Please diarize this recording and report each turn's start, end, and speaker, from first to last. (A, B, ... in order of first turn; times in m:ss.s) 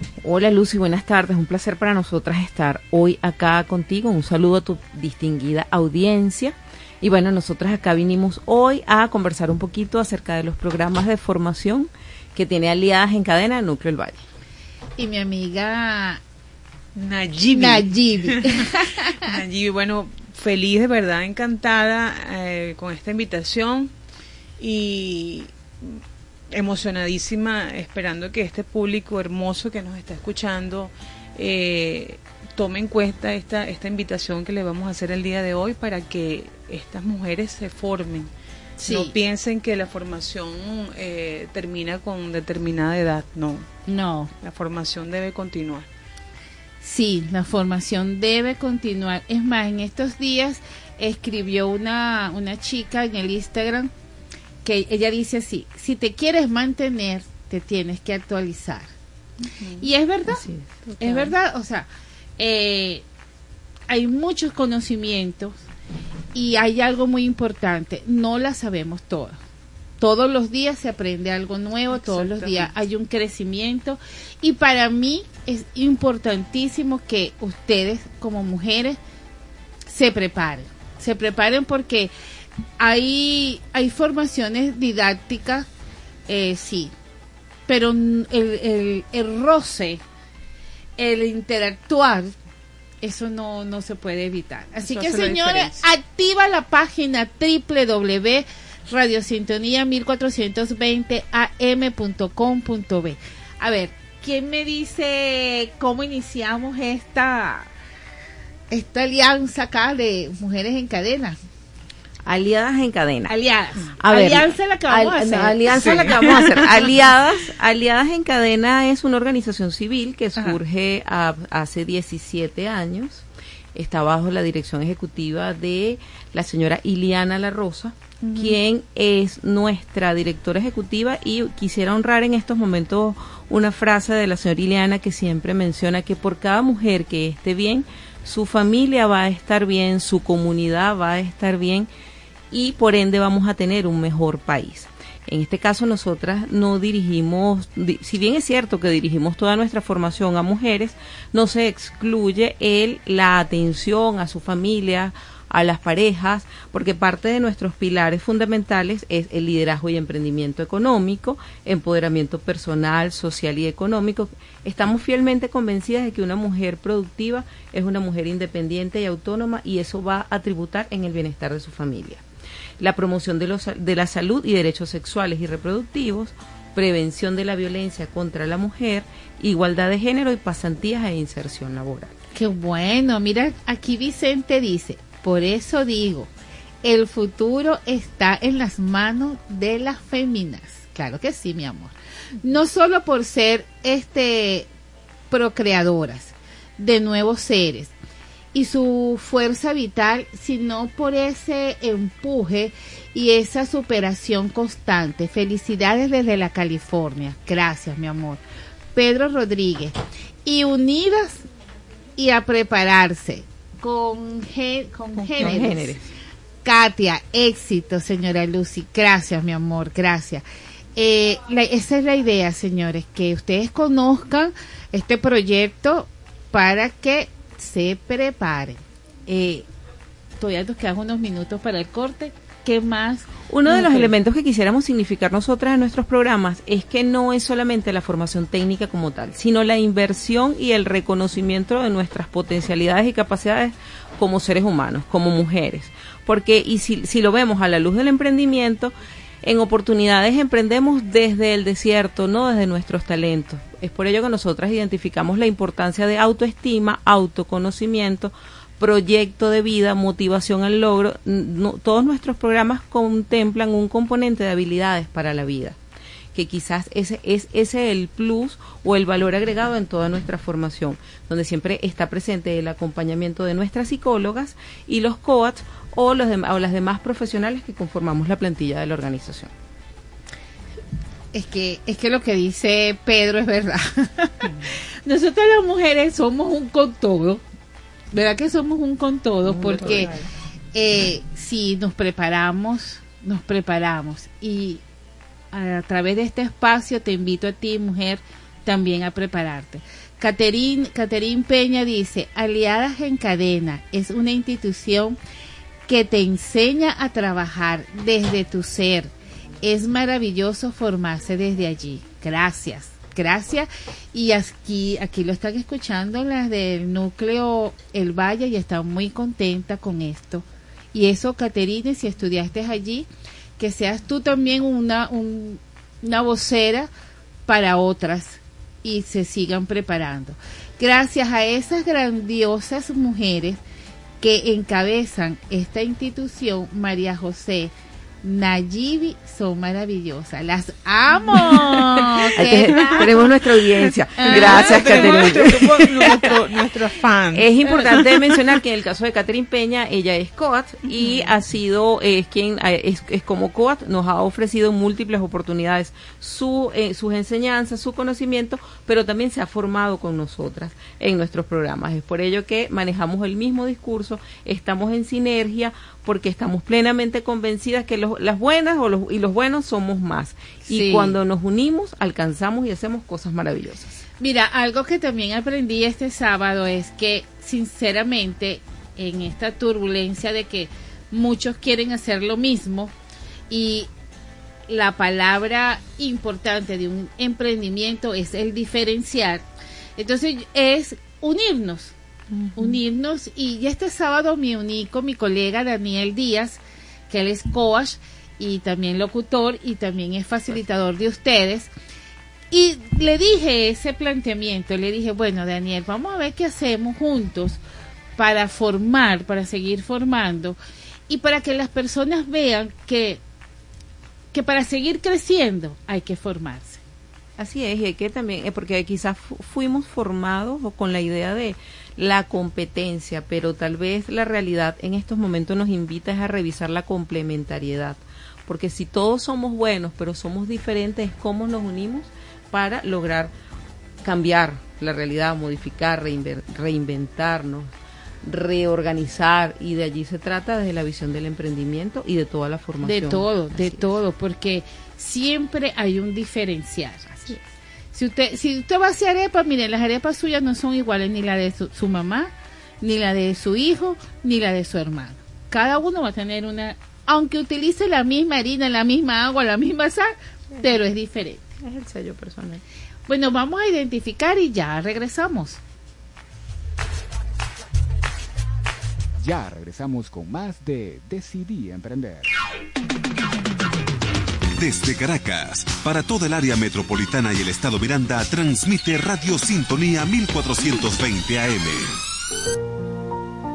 0:00.2-0:14.2 A
0:15.0-0:16.2 B
0:17.0-0:23.9 C
0:17.5-0:19.1 B
0:24.6-0:38.3 C
0:38.8-0:39.1 B
0:38.8-0:43.7 C
0:43.9-0:44.3 B
0:44.4-0:45.9 C
0:46.8-0:53.9 B
0:54.6-0:58.9 B
0:59.6-0:59.8 C
0:59.8-1:00.4 B
1:00.3-1:01.3 A
1:01.0-1:03.0 B
1:03.9-1:05.6 B
1:06.3-1:09.4 B
1:10.0-1:19.0 B
1:11.9-1:12.7 C
1:19.9-1:22.1 B
1:22.8-1:25.7 B
1:26.3-1:26.9 B
1:27.7-1:30.0 B
1:31.0-1:32.4 B
1:33.0-1:47.7 B
1:34.8-1:35.8 C
1:48.7-1:51.4 B
1:52.2-1:53.4 A
1:53.3-1:56.5 B
1:54.0-2:03.2 A
1:55.7-1:56.6 C
2:03.7-2:21.9 A
2:22.5-2:52.2 A
2:52.8-3:02.1 A
3:02.3-3:06.3 B
3:06.8-3:14.7 B
3:15.3-3:17.9 B
3:18.5-3:28.4 B
3:28.9-3:31.4 B
3:32.2-3:36.0 B
3:35.4-3:36.1 A
3:36.6-3:40.4 B
3:41.0-3:49.6 B
3:50.4-3:54.1 B
3:53.5-4:25.8 A
4:26.3-4:39.5 A
4:41.3-4:44.5 B
4:45.0-4:47.4 B
4:48.1-4:50.1 B
4:50.7-4:54.8 B
4:55.5-5:05.2 B
5:05.9-5:26.9 B
5:27.5-5:33.6 B
5:34.2-5:42.9 B
5:41.5-5:48.5 C
5:42.4-5:46.4 A
5:44.2-5:45.4 B
5:47.3-6:14.0 A
6:10.7-6:11.1 B
6:14.2-6:22.9 B
6:23.5-6:23.9 B
6:24.7-6:29.4 B
6:30.0-6:31.9 B
6:32.6-6:41.7 B
6:42.5-6:47.6 B
6:48.2-6:50.6 B
6:51.1-6:53.2 B
6:54.3-6:56.8 B
6:57.4-7:13.3 A
7:14.0-7:17.7 A
7:18.2-7:23.9 A
7:22.8-7:27.4 B
7:27.9-7:41.5 B
7:43.1-7:45.6 B
7:49.2-7:52.3 D
7:54.6-8:02.0 E